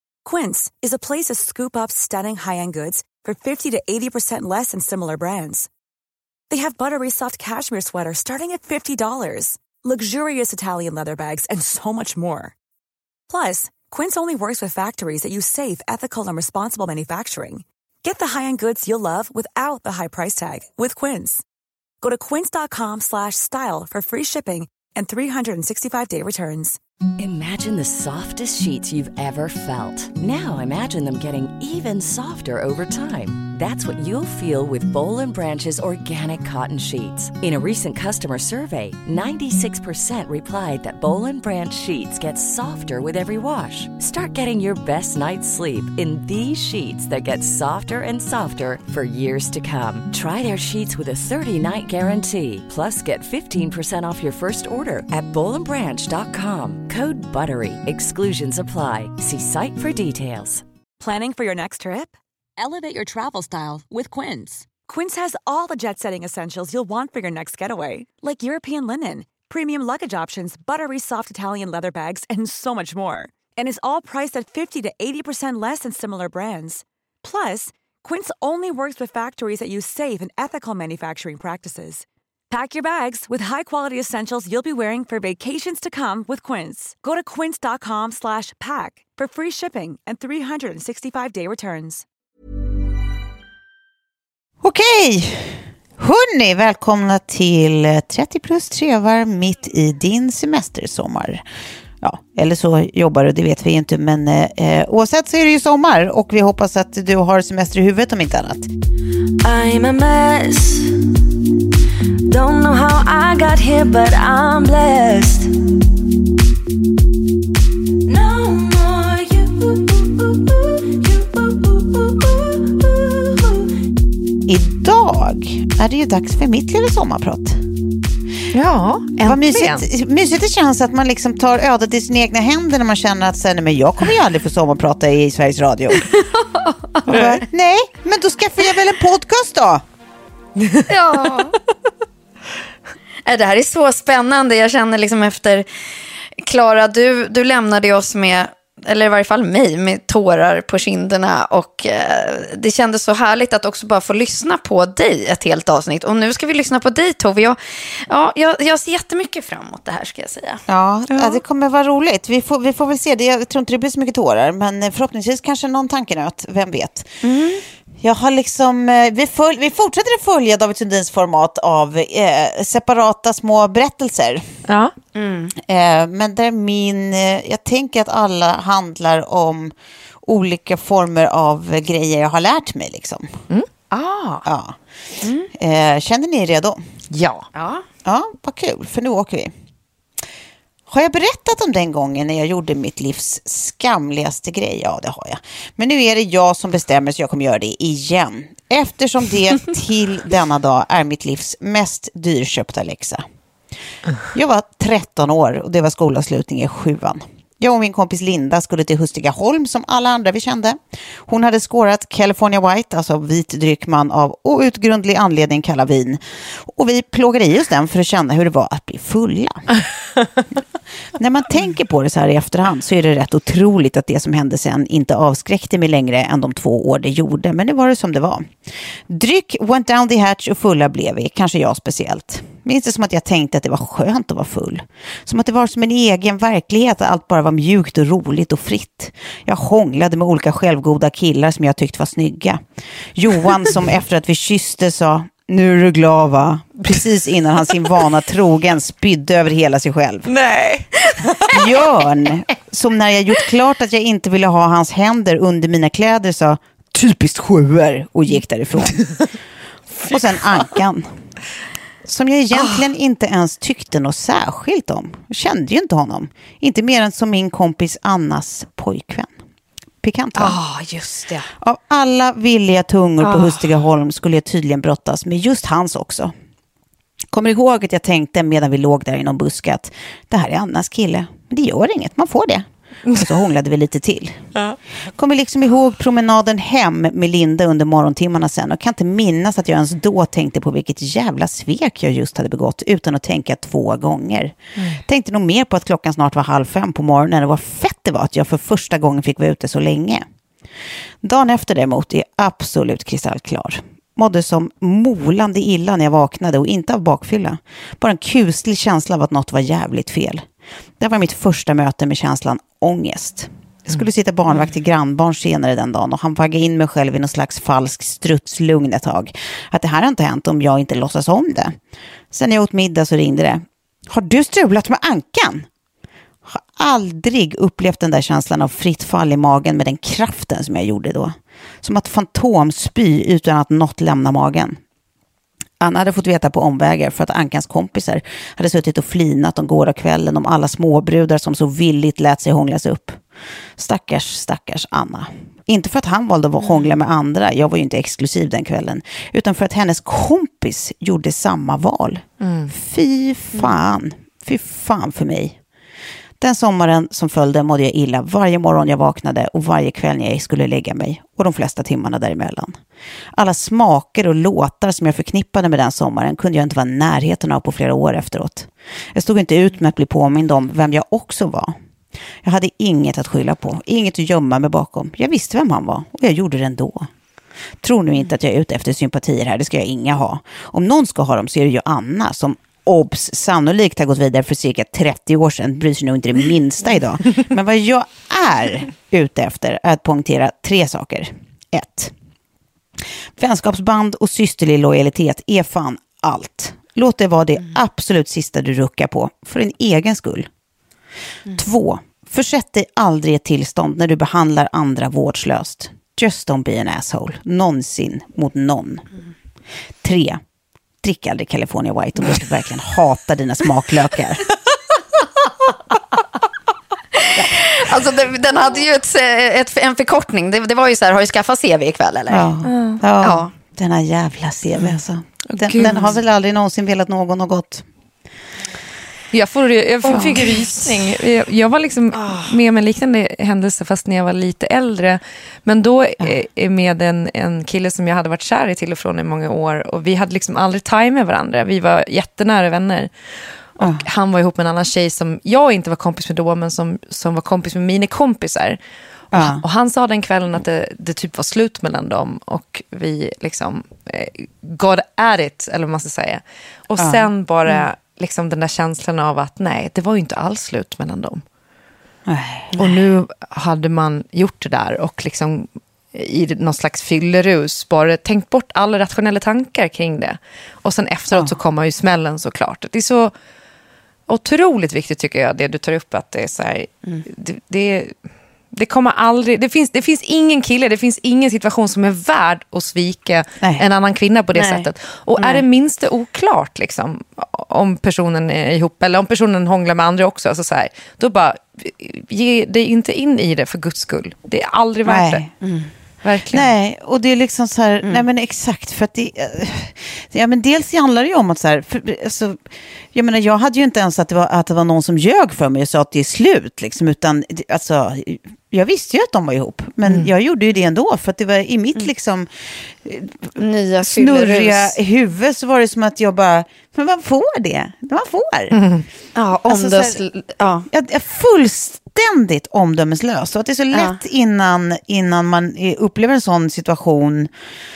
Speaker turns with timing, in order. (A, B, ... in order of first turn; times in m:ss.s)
0:00.2-0:05.7 A
0:06.5-0:12.5 A
0:13.3-0:21.4 A
0:22.0-0:26.8 A
0:27.2-1:00.6 B
1:01.0-1:32.0 A
1:34.6-1:41.4 C
1:42.0-1:48.7 C
1:49.4-1:51.2 D
1:52.2-1:55.5 D
1:58.0-2:03.7 D
2:04.4-2:07.6 C
2:08.5-2:09.8 E
2:09.2-2:16.1 C
2:16.0-2:17.4 F
2:17.0-2:19.8 C
2:17.1-2:17.4 E
2:20.6-2:20.9 E
2:20.9-2:21.6 F
2:23.2-2:25.6 F
2:26.4-2:40.6 F
2:40.7-2:47.2 C
2:41.1-2:41.4 E
2:47.2-2:47.6 F
2:48.0-2:54.4 C
2:54.7-2:54.9 E
2:55.1-2:55.5 F
2:55.6-2:59.7 C
3:00.2-3:03.3 C
3:03.9-3:04.4 F
3:04.4-3:04.8 C
3:05.2-3:05.5 F
3:05.5-3:06.8 C
3:07.1-3:07.4 E
3:07.5-3:07.8 F
3:08.0-3:09.5 C
3:10.9-3:23.2 C
3:24.3-3:39.6 C
3:41.2-3:48.5 C
3:49.1-4:02.6 C
4:03.1-4:10.3 C
4:10.3-4:11.5 E
4:11.1-4:11.5 F
4:11.5-4:19.0 C
4:20.1-4:21.1 C
4:22.0-4:29.3 C
4:30.0-4:30.6 C
4:30.4-4:31.5 F
4:31.6-4:36.3 C
4:33.2-4:33.5 F
4:37.3-4:44.4 C
4:45.1-5:00.2 C
5:01.2-5:10.4 C
5:11.0-5:21.8 C
5:22.3-5:25.7 C
5:26.4-5:34.8 C
5:35.8-5:43.2 C
5:43.8-5:55.6 C
5:46.6-5:46.9 F
5:52.4-5:52.7 E
5:56.4-6:02.8 C
6:03.3-6:11.7 C
6:12.4-6:17.1 C
6:17.8-6:32.1 C
6:33.4-6:40.5 C
6:41.5-6:49.0 C
6:50.0-6:50.4 C
6:51.0-6:54.4 C
6:57.2-7:02.5 F
7:02.3-7:07.8 C
7:02.6-7:03.0 E
7:03.2-7:03.5 F
7:05.5-7:06.1 E
7:05.8-7:06.1 F
7:09.3-7:23.1 E
7:10.1-7:10.6 C
7:12.2-7:12.5 F
7:23.8-7:28.8 E
7:23.8-7:24.0 C
7:29.3-7:41.4 E
7:29.3-7:29.6 C
7:37.0-7:37.3 C
7:42.3-7:42.8 C
7:42.8-7:53.3 E
7:54.3-7:58.1 E
7:58.7-8:15.4 E
8:04.5-8:05.6 F
8:15.0-8:15.5 C
8:15.6-8:15.9 F
8:16.2-8:16.7 E
8:16.5-8:22.6 C
8:23.1-8:32.5 C
8:33.0-8:38.8 C
8:33.6-8:34.9 F
8:38.7-8:39.0 E
8:39.4-8:40.9 F
8:39.6-8:40.2 C
8:40.9-8:47.5 C